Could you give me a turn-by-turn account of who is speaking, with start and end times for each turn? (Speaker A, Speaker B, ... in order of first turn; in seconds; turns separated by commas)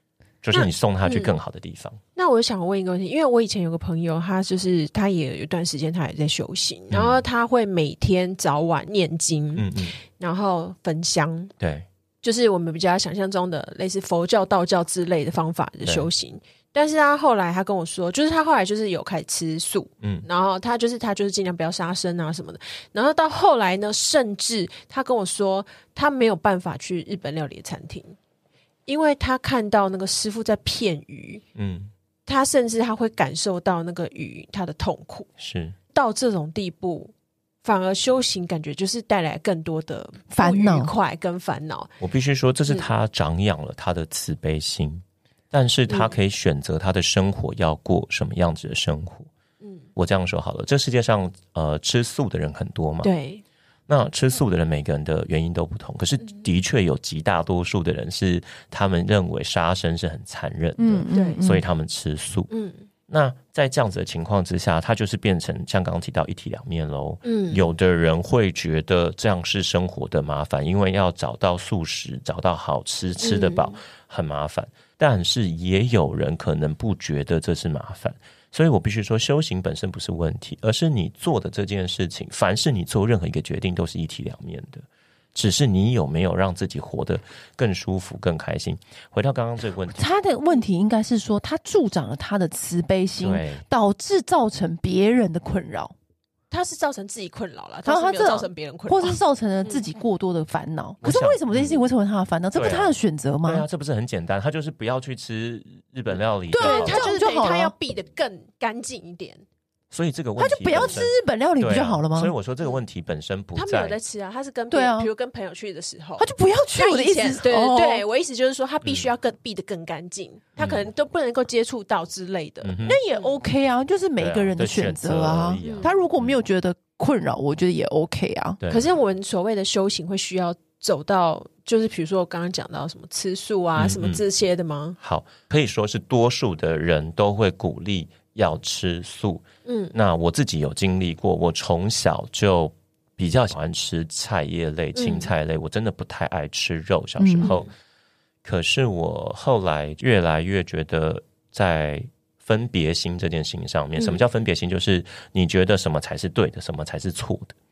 Speaker A: 0.4-2.0, Speaker B: 0.5-1.3, Speaker B: 2.1-11.5, Speaker A: 6.9-7.2, Speaker A: 9.6-10.0, Speaker A: 11.6-11.9, Speaker B: 12.2-28.1, Speaker A: 15.8-16.1, Speaker B: 28.9-31.4, Speaker A: 31.6-31.9, Speaker B: 32.2-35.3, Speaker A: 35.4-35.8, Speaker B: 35.9-37.1, Speaker B: 37.6-41.9, Speaker C: 40.3-40.9, Speaker A: 42.0-49.3, Speaker B: 45.9-46.2, Speaker B: 49.6-49.9, Speaker A: 50.0-53.1, Speaker B: 53.0-53.4, Speaker A: 53.9-62.5, Speaker C: 60.8-61.6, Speaker B: 61.1-61.4, Speaker B: 62.5-62.9, Speaker A: 63.1-90.0, Speaker B: 67.2-67.6, Speaker B: 73.2-73.8, Speaker C: 90.0-95.9, Speaker A: 93.2-93.6, Speaker B: 96.5-99.8, Speaker C: 97.8-103.7, Speaker A: 101.0-101.8, Speaker A: 102.5-107.0, Speaker C: 106.5-107.7, Speaker B: 106.6-109.4, Speaker A: 109.9-114.0, Speaker C: 110.4-112.3, Speaker B: 113.5-123.3, Speaker C: 114.7-115.1, Speaker C: 116.2-118.0, Speaker A: 118.8-119.1, Speaker A: 120.6-120.9, Speaker A: 122.6-123.0, Speaker C: 122.8-128.6, Speaker A: 124.2-126.3, Speaker B: 125.6-125.9, Speaker A: 128.6-128.9, Speaker B: 128.7-135.0, Speaker A: 133.8-134.2, Speaker A: 135.0-147.7, Speaker B: 139.6-139.9, Speaker B: 144.9-145.3, Speaker C: 147.2-147.5, Speaker B: 147.4-147.7, Speaker A: 148.4-157.5, Speaker B: 154.0-154.2